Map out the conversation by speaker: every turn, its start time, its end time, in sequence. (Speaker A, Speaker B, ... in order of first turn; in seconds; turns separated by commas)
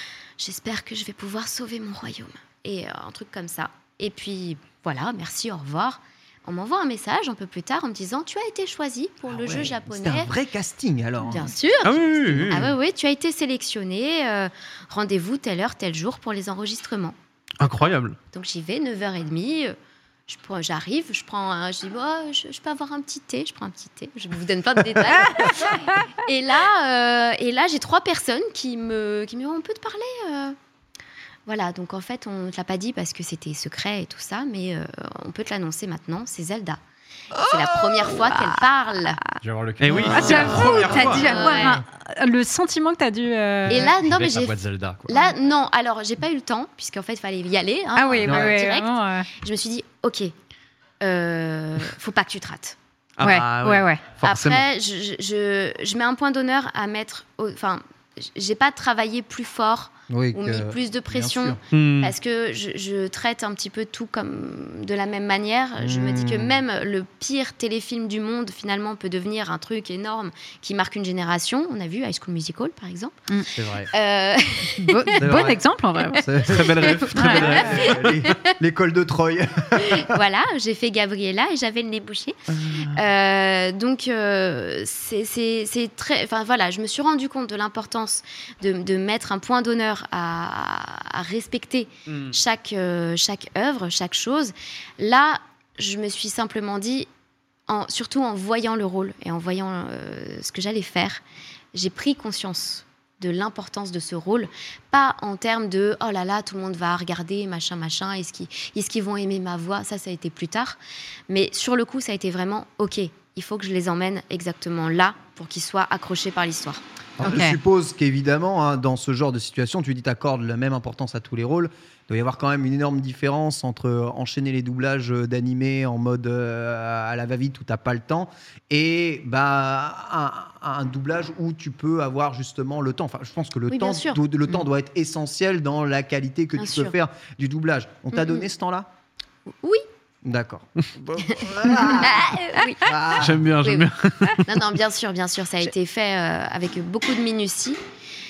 Speaker A: 0.4-10.3, Speaker B: 9.3-12.7, Speaker A: 11.3-17.2, Speaker C: 11.8-12.7, Speaker C: 17.6-18.2, Speaker A: 18.3-19.8, Speaker A: 20.3-30.6, Speaker A: 31.5-36.8, Speaker A: 37.4-39.2, Speaker B: 37.5-38.2, Speaker D: 39.4-41.2, Speaker C: 39.8-41.4, Speaker E: 39.9-43.9, Speaker A: 41.2-41.8, Speaker D: 43.7-45.2, Speaker A: 43.7-50.3, Speaker E: 48.0-49.3, Speaker A: 51.0-52.8, Speaker C: 53.2-54.6, Speaker E: 53.2-54.2, Speaker A: 54.2-73.2, Speaker B: 60.1-61.6, Speaker C: 61.7-62.1, Speaker B: 65.8-66.6, Speaker B: 73.5-73.9, Speaker A: 73.9-75.2, Speaker E: 74.9-76.4, Speaker B: 75.2-80.1, Speaker C: 76.5-78.2, Speaker A: 76.8-78.4, Speaker E: 77.2-77.6, Speaker A: 79.8-97.1, Speaker B: 82.5-83.0, Speaker C: 92.1-92.3, Speaker A: 97.7-101.2, Speaker A: 101.7-110.8, Speaker A: 111.3-117.4, Speaker B: 117.2-138.9, Speaker E: 117.2-117.6, Speaker A: 133.7-134.2, Speaker A: 136.6-136.9, Speaker A: 138.1-138.5, Speaker A: 139.5-139.8, Speaker B: 140.2-143.5, Speaker A: 142.0-143.0, Speaker C: 143.2-144.5, Speaker A: 143.6-143.9, Speaker A: 144.4-147.8